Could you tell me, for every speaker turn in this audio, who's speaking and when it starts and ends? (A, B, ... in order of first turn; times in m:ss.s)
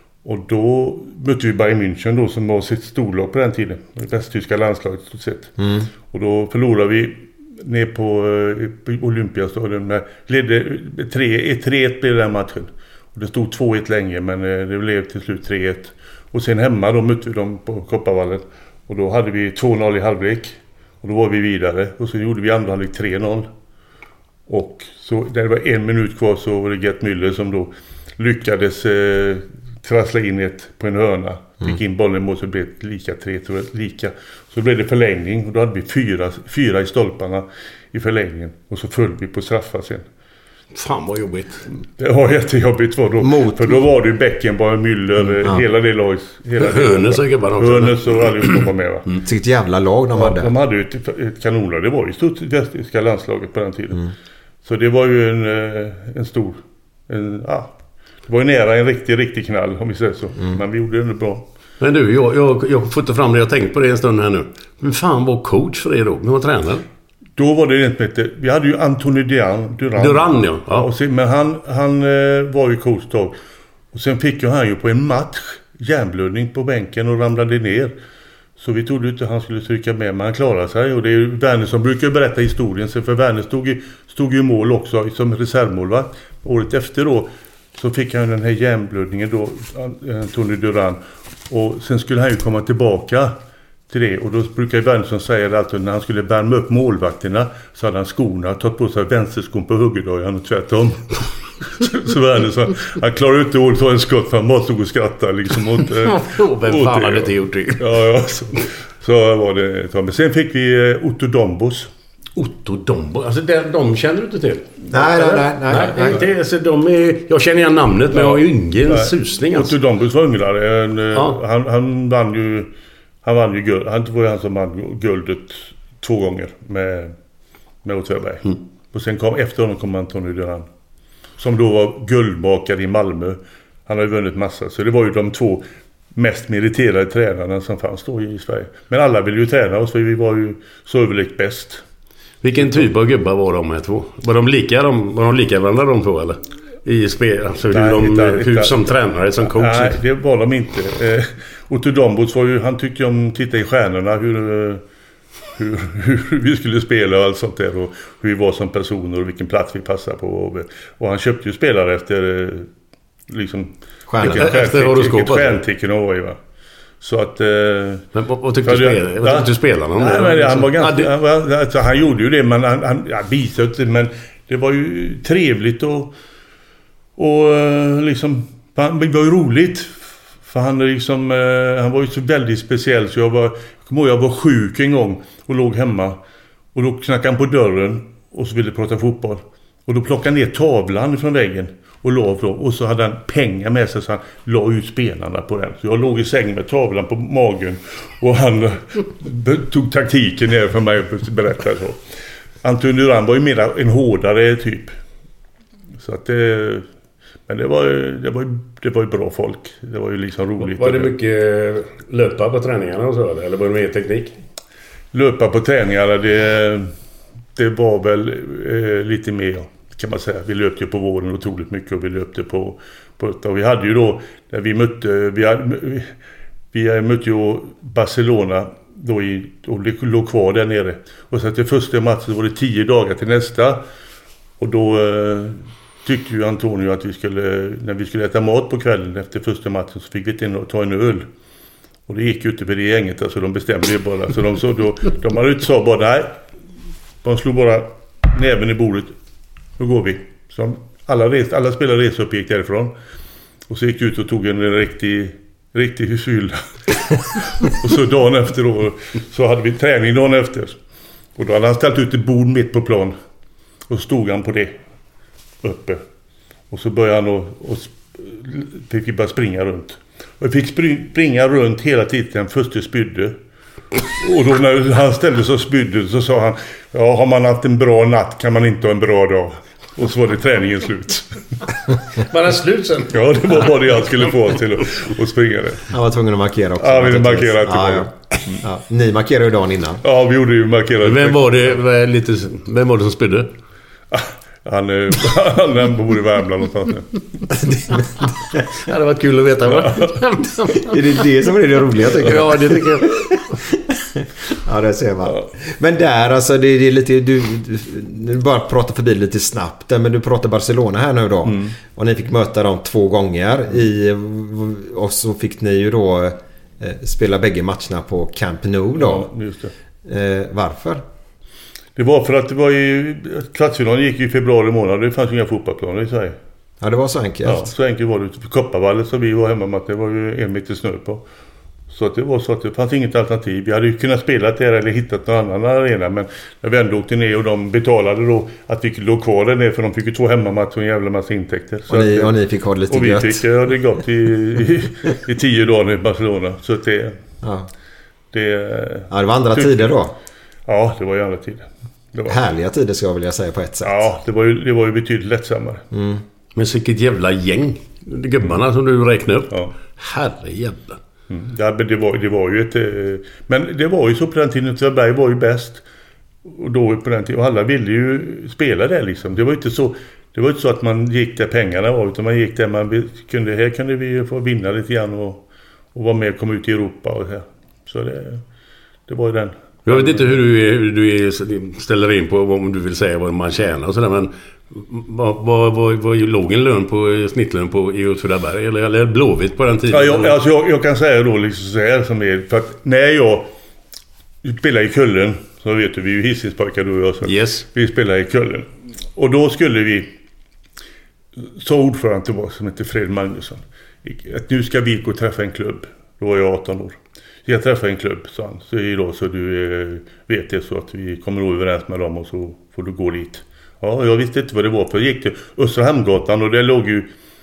0:00.2-0:05.6 A
0:05.6-0:05.9 B
0:06.1-0:23.5 A
0:24.5-0:40.0 A
0:40.7-0:41.7 C
0:42.0-0:49.0 A
0:43.2-0:43.8 B
0:46.6-0:49.2 C
0:49.2-0:50.5 B
0:50.1-0:54.1 A
0:54.6-0:57.8 A
0:58.3-1:01.4 A
1:01.8-1:06.8 C
1:07.4-1:13.4 A
1:10.0-1:10.9 C
1:13.9-1:17.9 A
1:18.6-1:33.3 A
1:33.9-1:51.9 A
1:46.0-1:47.9 C
1:52.3-1:59.7 C
1:54.9-1:56.2 B
1:58.1-2:02.7 A
2:03.2-2:07.1 A
2:07.8-2:10.6 A
2:11.4-2:21.8 A
2:22.4-2:30.0 C
2:27.7-2:28.8 A
2:29.4-2:34.8 A
2:35.5-2:42.7 A
2:43.3-2:46.4 A
2:44.1-2:44.5 B
2:44.2-2:45.6 C
2:47.0-2:48.1 A
2:48.1-2:51.1 C
2:48.6-2:56.1 A
2:57.2-3:06.2 A
3:06.7-3:22.0 A
3:22.6-3:24.9 A
3:26.0-3:26.8 A
3:27.5-3:31.1 A
3:30.6-3:34.4 C
3:35.1-3:36.9 A
3:37.6-3:46.1 A
3:46.7-3:53.8 A
3:54.6-4:01.2 A
4:02.1-4:06.3 A
4:07.2-4:09.1 A
4:09.8-4:12.9 A
4:13.7-4:20.8 A
4:21.4-4:23.2 A
4:23.9-4:24.8 A
4:25.6-4:26.0 A
4:26.7-4:33.4 A
4:34.1-4:41.4 A
4:42.3-4:44.1 C
4:43.1-4:45.9 A
4:45.9-4:50.0 B
4:46.8-4:48.6 A
4:50.0-4:51.7 A
4:51.0-4:53.5 C
4:54.1-4:57.2 A
4:57.5-4:58.3 B
4:58.8-5:00.9 C
4:59.7-5:00.2 A
5:00.8-5:19.3 B
5:02.2-5:03.6 C
5:05.2-5:05.5 A
5:11.4-5:11.8 A
5:19.0-5:19.7 A
5:20.0-5:21.0 B
5:22.0-5:26.4 A
5:26.8-5:27.7 B
5:27.4-5:31.2 A
5:31.9-5:42.3 A
5:41.9-5:43.4 B
5:42.9-5:47.2 A
5:47.4-5:47.7 B
5:48.3-5:49.9 A
5:49.1-5:50.1 B
5:50.7-5:52.4 A
5:52.3-5:54.0 B
5:53.8-5:55.8 A
5:55.9-5:56.2 B
5:56.5-6:01.0 C
6:01.3-6:05.8 A
6:06.4-6:18.4 A
6:19.1-6:20.4 A
6:19.8-6:30.4 C
6:29.9-6:33.5 A
6:34.4-6:40.1 A
6:37.2-6:37.6 C
6:41.4-6:57.1 A